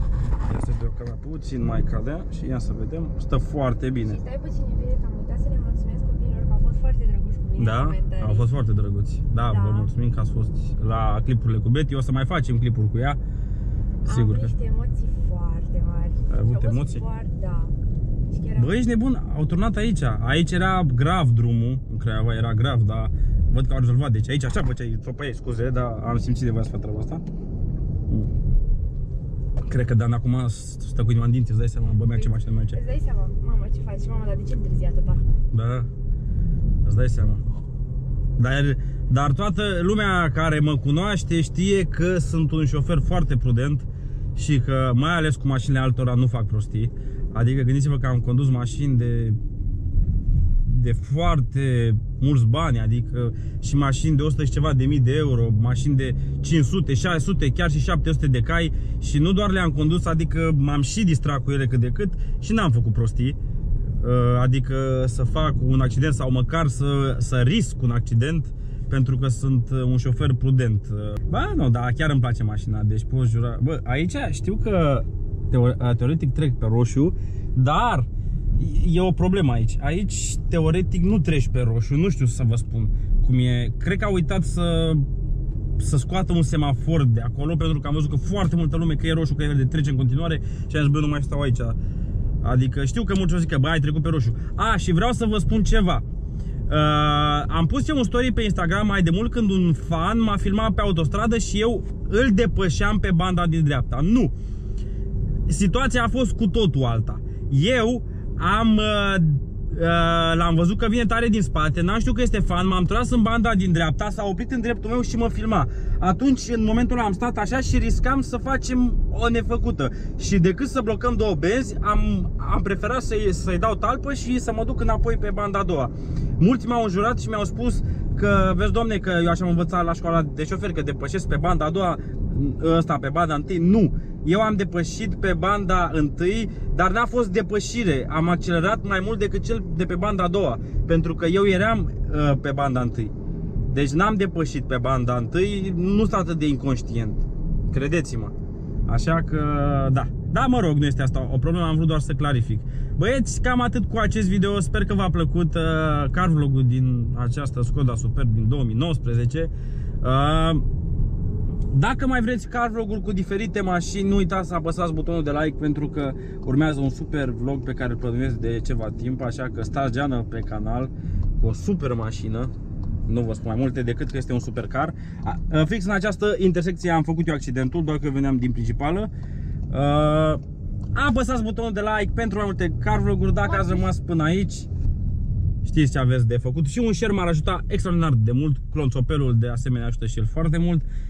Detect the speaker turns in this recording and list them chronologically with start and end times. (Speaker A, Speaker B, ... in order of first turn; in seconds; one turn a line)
Speaker A: 0.5-4.2
Speaker B: 4.0-8.5
Speaker A: 7.6-13.2
Speaker B: 9.4-9.9
Speaker A: 14.1-14.5
Speaker B: 14.1-17.8
Speaker A: 16.3-17.1
Speaker B: 18.3-18.7
Speaker A: 18.6-27.2
Speaker A: 29.7-32.8
Speaker B: 32.1-35.2
Speaker A: 35.5-35.9
Speaker A: 36.9-37.4
Speaker A: 38.4-49.4
Speaker A: 50.6-63.4
Speaker A: 64.0-85.1
Speaker A: 85.8-91.8
Speaker A: 92.4-96.0
Speaker A: 96.7-104.3
Speaker A: 105.5-143.1
Speaker A: 143.7-148.3
Speaker A: 148.9-159.5
Speaker A: 160.0-160.7
Speaker A: 161.7-172.5
Speaker A: 173.1-179.1
Speaker A: 179.7-180.4
Speaker A: 180.9-184.7
Speaker B: 183.5-183.8
Speaker A: 185.6-190.9